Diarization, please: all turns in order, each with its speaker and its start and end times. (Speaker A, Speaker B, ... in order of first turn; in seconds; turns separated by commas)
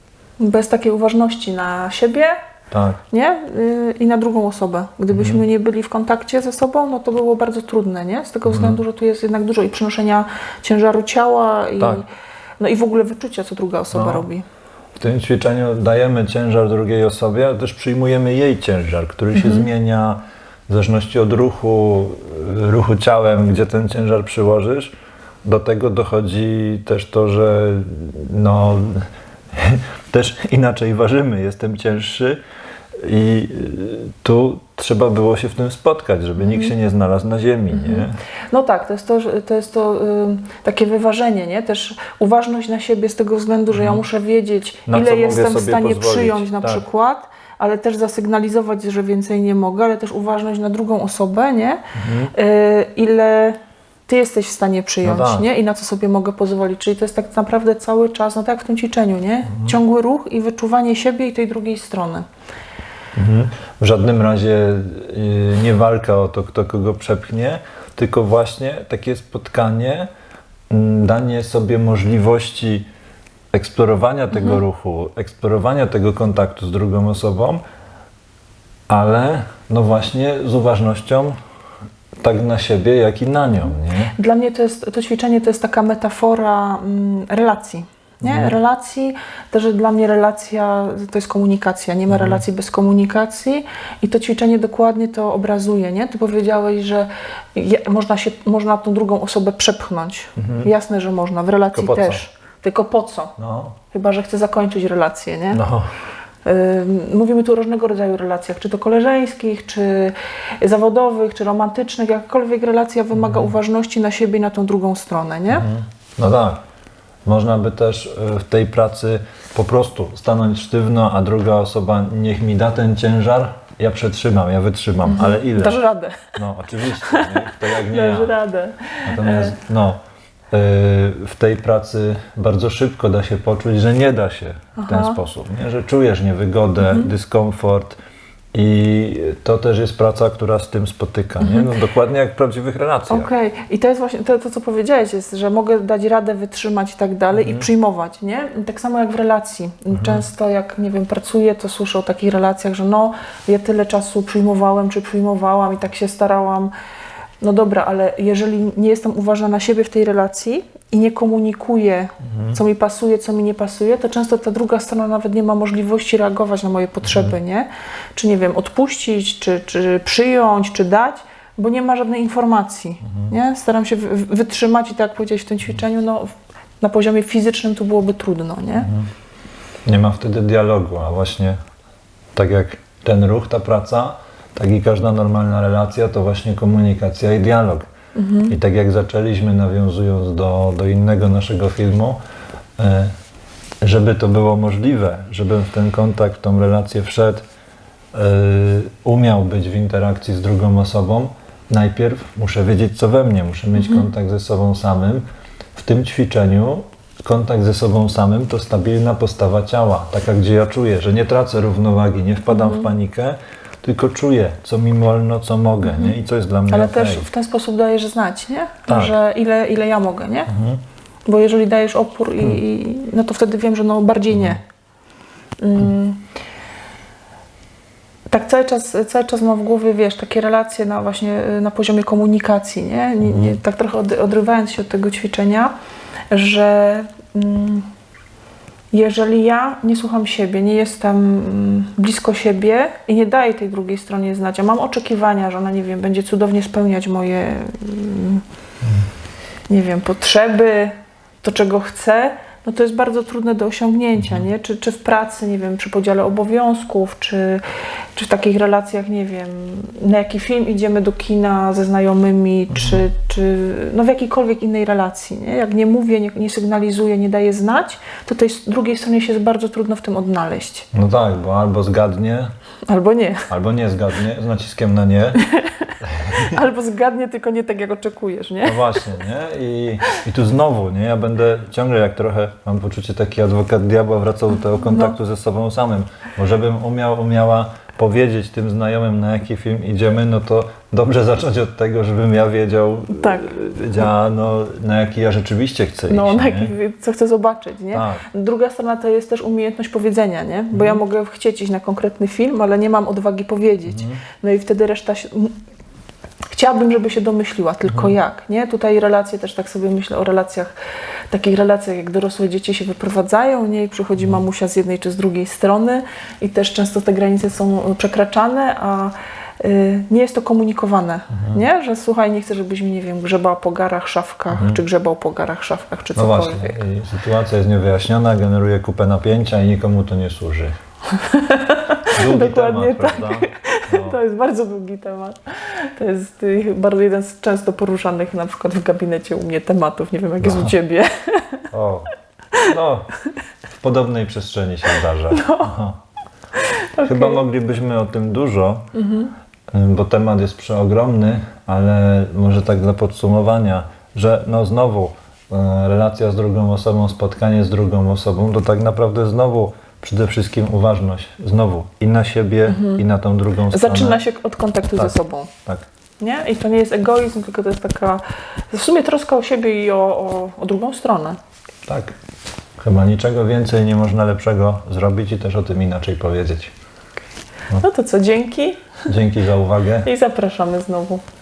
Speaker A: 0.4-2.4, Speaker B: 2.7-3.0, Speaker A: 3.1-12.1, Speaker B: 5.1-5.4, Speaker B: 8.5-8.8, Speaker A: 12.6-14.4, Speaker B: 13.9-14.3, Speaker B: 15.0-24.9, Speaker A: 19.3-19.7, Speaker B: 25.4-32.4, Speaker B: 33.0-38.2, Speaker A: 36.4-36.7, Speaker A: 37.7-62.2, Speaker B: 43.7-44.0, Speaker B: 44.9-46.8, Speaker B: 52.0-52.3, Speaker B: 55.0-55.5, Speaker B: 59.5-59.8, Speaker B: 63.1-70.1, Speaker B: 70.7-72.9, Speaker B: 73.5-77.6, Speaker B: 78.9-81.4, Speaker B: 82.2-84.1, Speaker A: 84.2-103.3, Speaker B: 88.2-88.6, Speaker B: 92.1-92.4, Speaker B: 100.4-100.7, Speaker B: 101.7-102.2, Speaker B: 103.4-103.8, Speaker A: 103.9-105.6, Speaker B: 105.5-105.9, Speaker A: 106.5-115.7, Speaker B: 113.1-113.5, Speaker B: 115.5-116.6, Speaker B: 117.2-125.8, Speaker A: 125.1-126.3, Speaker B: 126.3-128.3, Speaker A: 127.0-129.6, Speaker B: 129.1-130.0, Speaker B: 130.5-138.0, Speaker A: 134.8-135.2, Speaker A: 136.8-137.1, Speaker B: 138.5-143.3, Speaker A: 141.4-141.7, Speaker A: 143.1-156.7, Speaker B: 147.3-147.7, Speaker B: 149.9-150.2, Speaker A: 157.4-178.9, Speaker B: 162.3-162.6, Speaker B: 178.8-179.1, Speaker B: 179.9-181.6, Speaker B: 182.3-187.9, Speaker A: 188.2-188.6, Speaker B: 188.5-192.2, Speaker B: 192.8-193.1, Speaker B: 193.8-197.4, Speaker B: 198.1-217.2, Speaker A: 203.8-204.1, Speaker A: 212.5-212.9, Speaker A: 215.8-216.2, Speaker A: 216.7-220.5, Speaker B: 218.9-219.2, Speaker B: 220.5-220.8, Speaker A: 221.3-224.6, Speaker A: 225.6-226.2, Speaker A: 228.3-235.7, Speaker B: 233.2-233.6, Speaker A: 236.3-237.9, Speaker A: 238.9-248.4, Speaker A: 249.7-257.6, Speaker B: 254.2-254.5, Speaker A: 258.1-270.9, Speaker B: 262.7-263.0, Speaker B: 270.9-272.5, Speaker A: 272.9-273.5, Speaker B: 273.5-275.4, Speaker A: 275.4-279.1, Speaker B: 276.0-276.6, Speaker B: 278.6-296.8, Speaker A: 284.9-285.1, Speaker A: 293.1-293.5, Speaker A: 296.1-305.6, Speaker B: 297.9-298.2, Speaker B: 300.7-301.0, Speaker B: 303.9-304.2, Speaker A: 306.5-310.8, Speaker B: 307.9-308.2, Speaker A: 311.3-326.8, Speaker B: 314.2-314.4, Speaker B: 321.3-321.6, Speaker B: 324.5-324.8, Speaker B: 326.2-330.7, Speaker A: 331.1-341.7, Speaker B: 332.1-334.2, Speaker B: 340.4-340.7, Speaker B: 341.7-343.1, Speaker B: 343.8-346.0, Speaker A: 345.3-345.7, Speaker A: 346.6-347.4, Speaker B: 347.0-348.9, Speaker A: 348.9-349.3, Speaker B: 349.7-364.2, Speaker A: 362.7-363.0, Speaker A: 363.7-365.5, Speaker A: 366.2-371.4, Speaker B: 371.9-372.1, Speaker B: 372.8-376.7, Speaker A: 377.8-378.9, Speaker B: 379.1-380.1, Speaker A: 380.0-381.2